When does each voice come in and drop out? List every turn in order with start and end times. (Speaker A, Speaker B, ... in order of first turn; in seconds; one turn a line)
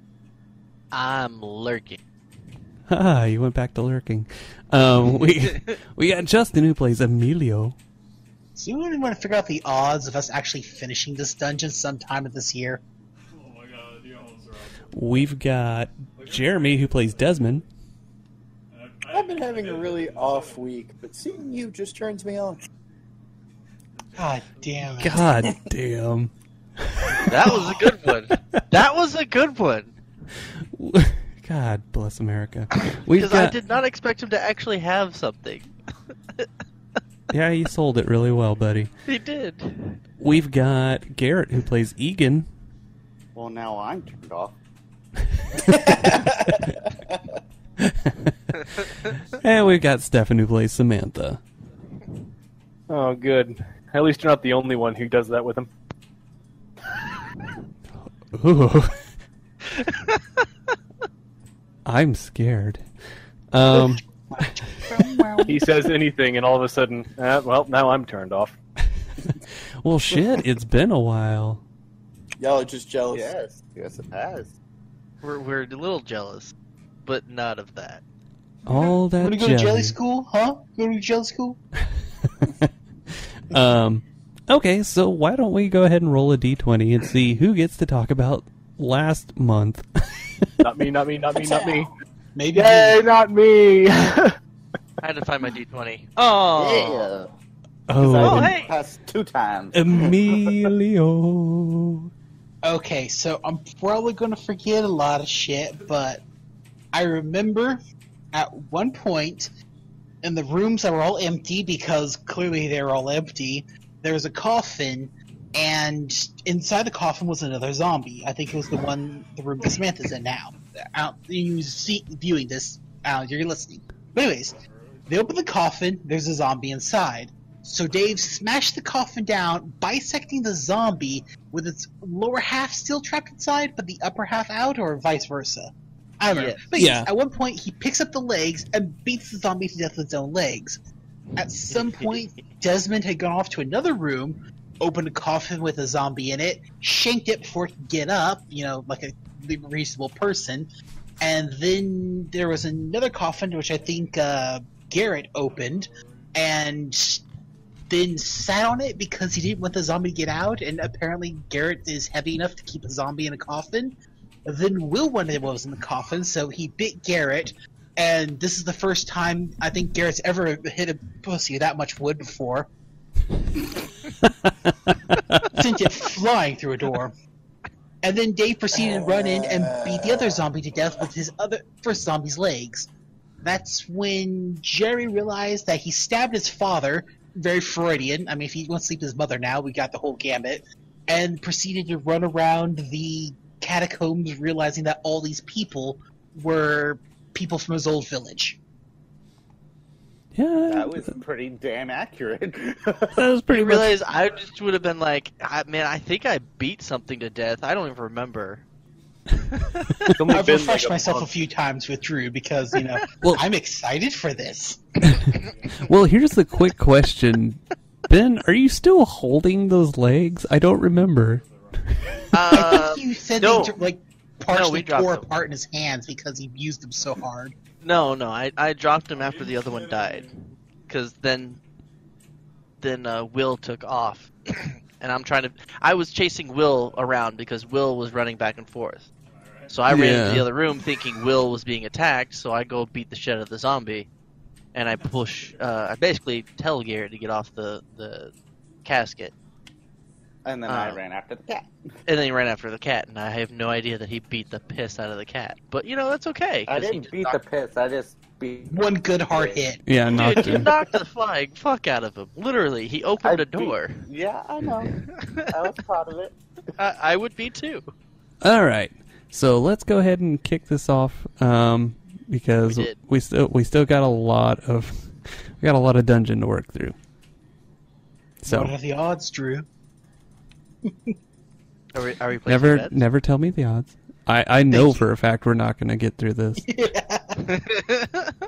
Speaker A: 0.9-2.0
Speaker B: 2.9-7.7
Speaker A: 5.3-5.7
Speaker C: 8.6-12.8
Speaker D: 13.3-15.2
Speaker B: 14.9-17.6
Speaker D: 16.2-17.6
Speaker D: 18.7-20.7
Speaker E: 19.1-22.6
Speaker D: 23.9-25.2
Speaker C: 24.1-25.3
Speaker B: 25.0-26.3
Speaker B: 26.8-27.7
Speaker A: 27.2-29.9
Speaker B: 30.7-33.5
Speaker A: 33.1-35.7
Speaker B: 37.3-38.9
Speaker A: 39.0-40.0
Speaker B: 40.2-42.5
Speaker F: 43.3-44.5
Speaker B: 45.6-46.7
Speaker B: 47.8-48.5
Speaker B: 49.1-51.4
Speaker G: 52.9-55.7
Speaker B: 58.3-59.0
Speaker B: 61.8-62.8
Speaker B: 63.5-64.0
Speaker C: 64.3-65.2
Speaker F: 64.8-65.6
Speaker G: 65.5-68.5
Speaker B: 69.8-71.6
Speaker E: 72.4-73.3
Speaker F: 73.1-74.5
Speaker A: 75.2-76.5
Speaker A: 77.0-78.0
Speaker B: 78.7-80.0
Speaker C: 78.8-81.6
Speaker B: 83.5-89.8
Speaker G: 90.6-91.9
Speaker C: 92.3-93.0
Speaker G: 92.5-94.3
Speaker A: 95.0-97.0
Speaker F: 96.5-97.3
Speaker B: 97.9-98.6
Speaker F: 98.0-100.5
Speaker A: 98.2-98.7
Speaker D: 98.4-98.8
Speaker B: 99.7-102.1
Speaker C: 102.6-106.2
Speaker C: 106.9-107.8
Speaker C: 108.3-109.5
Speaker C: 110.2-140.8
Speaker D: 124.5-125.3
Speaker D: 131.1-131.5
Speaker A: 136.3-136.6
Speaker B: 136.8-137.1
Speaker C: 141.3-157.2
Speaker A: 141.7-142.2
Speaker D: 155.4-156.3
Speaker C: 157.9-172.7
Speaker B: 174.7-175.5
Speaker C: 175.5-177.1
Speaker C: 178.0-182.9
Speaker E: 178.7-180.5
Speaker C: 183.4-198.6
Speaker B: 200.3-201.1
Speaker F: 200.7-203.2
Speaker B: 203.1-203.9
Speaker A: 203.5-208.6
Speaker A: 209.5-209.9
Speaker G: 210.1-211.3
Speaker C: 210.3-215.0
Speaker B: 215.0-215.3
Speaker A: 215.3-215.5
Speaker D: 215.3-216.0
Speaker B: 215.8-221.4
Speaker D: 221.1-222.4
Speaker A: 222.3-223.8
Speaker C: 222.5-227.5
Speaker A: 224.5-225.2
Speaker A: 227.8-231.6
Speaker D: 229.1-230.3
Speaker A: 232.8-239.1
Speaker D: 239.2-239.8
Speaker A: 239.7-244.1
Speaker B: 239.9-240.5
Speaker A: 244.7-248.3
Speaker D: 244.9-245.6
Speaker A: 248.8-249.3
Speaker F: 250.4-251.7
Speaker A: 250.7-251.0
Speaker A: 252.1-257.4
Speaker F: 256.7-259.6
Speaker C: 258.7-259.8
Speaker B: 259.8-260.7
Speaker A: 260.1-264.0
Speaker F: 263.2-264.9
Speaker A: 264.8-265.5
Speaker F: 265.5-266.3
Speaker A: 266.8-267.8
Speaker B: 268.4-275.1
Speaker A: 272.7-272.9
Speaker B: 275.6-276.9
Speaker B: 278.4-278.7
Speaker C: 278.5-279.7
Speaker C: 280.9-281.1
Speaker A: 281.9-283.0
Speaker B: 282.5-286.6
Speaker C: 284.7-285.1
Speaker C: 286.6-287.6
Speaker A: 287.5-288.3